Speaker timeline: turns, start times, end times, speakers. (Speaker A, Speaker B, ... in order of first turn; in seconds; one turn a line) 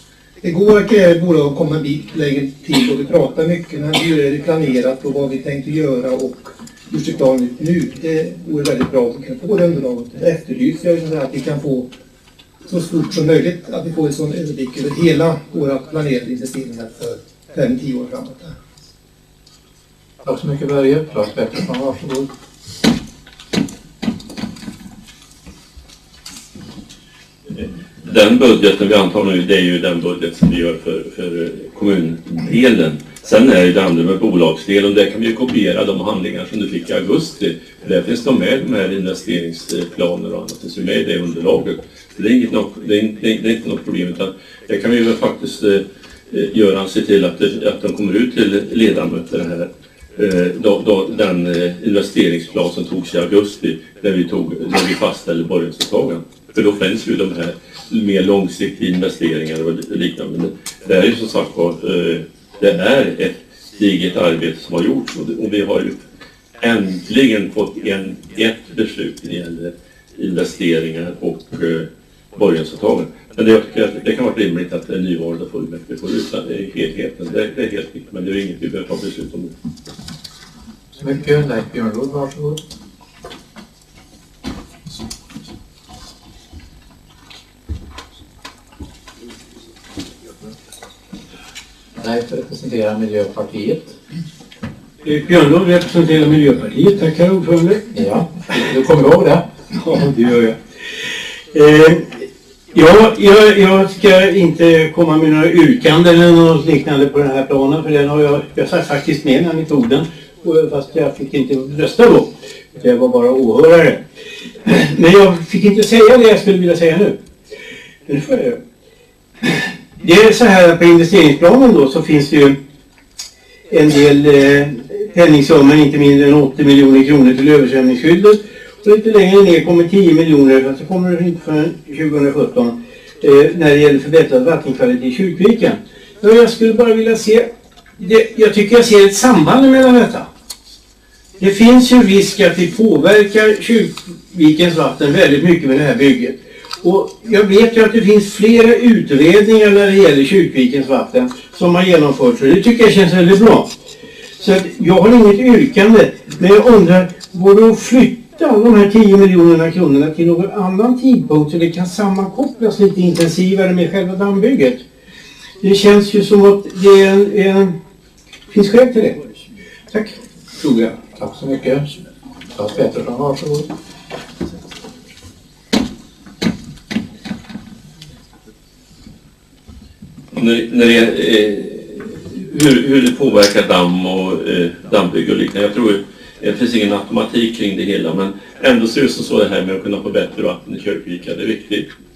Speaker A: 0.4-11.9
Speaker A: 12.7-18.6
Speaker B: 20.2-22.3
Speaker C: 27.6-66.0
Speaker C: 66.6-79.5
Speaker B: 81.0-82.6
Speaker B: 92.0-93.9
Speaker D: 95.0-97.8
Speaker B: 97.9-99.4
Speaker D: 99.7-100.6
Speaker D: 101.5-114.0
Speaker D: 114.7-117.2
Speaker D: 118.1-118.6
Speaker D: 119.4-122.6
Speaker D: 123.7-140.3
Speaker D: 141.4-153.7
Speaker D: 154.4-164.8
Speaker D: 165.6-167.7
Speaker D: 168.5-169.3
Speaker D: 169.9-171.0
Speaker B: 171.2-171.9
Speaker B: 172.6-173.7
Speaker C: 180.3-191.9